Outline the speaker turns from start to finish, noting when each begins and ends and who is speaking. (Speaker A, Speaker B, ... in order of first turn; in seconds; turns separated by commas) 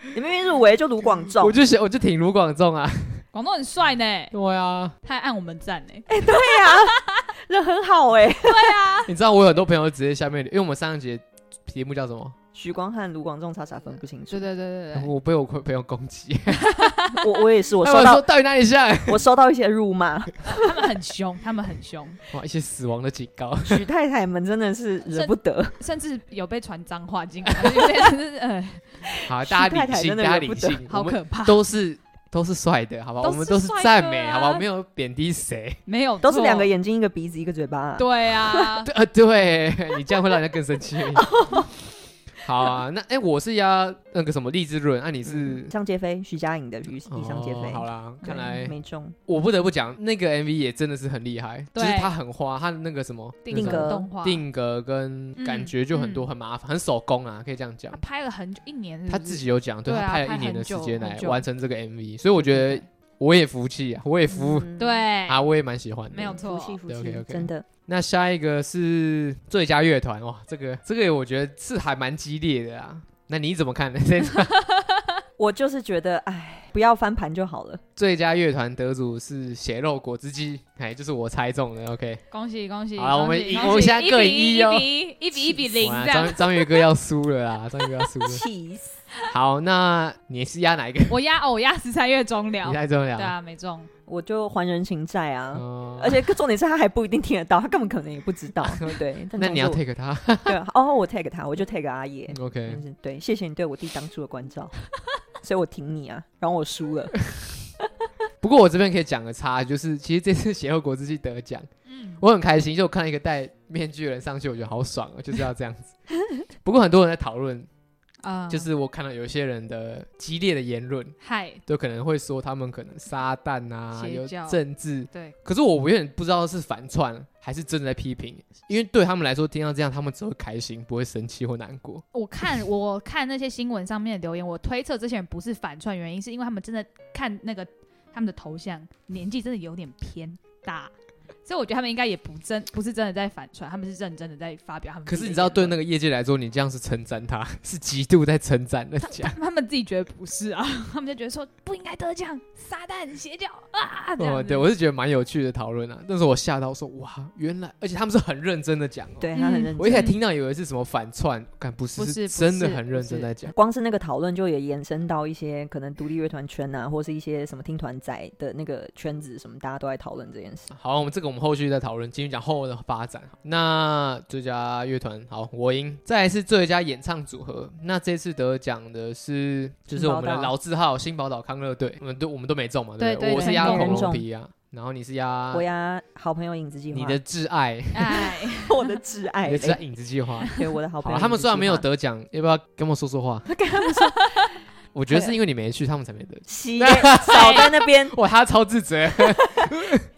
Speaker A: 0.1-1.5, Speaker B: 1.4-3.2, Speaker C: 3.3-4.3, Speaker B: 4.3-4.9, Speaker C: 5.0-7.2, Speaker A: 6.1-8.8, Speaker C: 8.4-9.1, Speaker B: 9.1-12.3, Speaker A: 12.5-14.4, Speaker C: 14.3-15.1, Speaker B: 14.9-16.7, Speaker C: 16.5-17.4, Speaker A: 17.1-18.2, Speaker B: 17.8-19.2, Speaker A: 19.1-20.6, Speaker C: 20.4-22.2, Speaker B: 22.3-23.8, Speaker A: 23.6-25.8, Speaker C: 25.1-29.1, Speaker A: 29.1-30.8, Speaker B: 29.2-35.8, Speaker C: 30.9-31.6, Speaker C: 33.2-34.6, Speaker C: 35.9-36.7, Speaker A: 36.2-38.8, Speaker C: 38.0-38.9, Speaker B: 38.8-41.6, Speaker A: 41.1-41.7, Speaker B: 42.4-45.7, Speaker A: 45.2-49.2, Speaker B: 47.0-48.7, Speaker B: 49.3-58.0, Speaker C: 51.7-52.1, Speaker C: 53.4-54.4, Speaker A: 53.5-54.1, Speaker C: 55.4-56.3, Speaker C: 57.9-61.4, Speaker B: 59.1-64.7, Speaker C: 62.4-62.8, Speaker A: 64.3-65.0, Speaker C: 64.8-65.4, Speaker B: 65.2-74.5, Speaker C: 66.1-66.8, Speaker A: 66.3-67.7, Speaker C: 74.5-75.2, Speaker A: 75.4-77.8, Speaker B: 78.0-82.2, Speaker C: 82.3-86.9, Speaker B: 83.0-84.9, Speaker B: 85.7-88.4, Speaker A: 88.2-89.0, Speaker B: 89.3-91.2, Speaker C: 91.1-93.9, Speaker B: 92.6-93.3, Speaker A: 94.1-99.8, Speaker B: 95.5-96.2, Speaker B: 98.7-100.5, Speaker A: 100.4-104.7, Speaker B: 102.3-102.8, Speaker A: 105.4-107.2, Speaker B: 108.4-111.7, Speaker C: 111.9-112.2, Speaker B: 112.2-115.9, Speaker B: 116.6-117.7, Speaker C: 118.2-118.7, Speaker B: 118.5-121.1, Speaker C: 121.2-121.6, Speaker B: 121.7-132.0, Speaker C: 123.9-124.6, Speaker C: 132.1-140.9, Speaker C: 141.4-145.8, Speaker B: 145.1-149.3, Speaker C: 149.0-154.7, Speaker B: 154.2-163.5, Speaker A: 159.2-160.1, Speaker C: 159.3-160.2, Speaker C: 162.0-163.3, Speaker A: 163.5-170.7, Speaker B: 170.7-185.6, Speaker A: 179.9-180.5, Speaker C: 183.0-184.1, Speaker A: 183.4-184.2, Speaker A: 185.5-187.2, Speaker B: 186.9-188.3, Speaker C: 187.9-189.0, Speaker A: 188.4-189.8, Speaker B: 189.4-193.5, Speaker C: 190.4-190.7, Speaker A: 190.5-191.8, Speaker A: 193.5-194.2, Speaker C: 193.7-194.5, Speaker B: 194.9-200.0, Speaker A: 195.1-195.3, Speaker A: 196.5-198.1, Speaker C: 197.3-197.7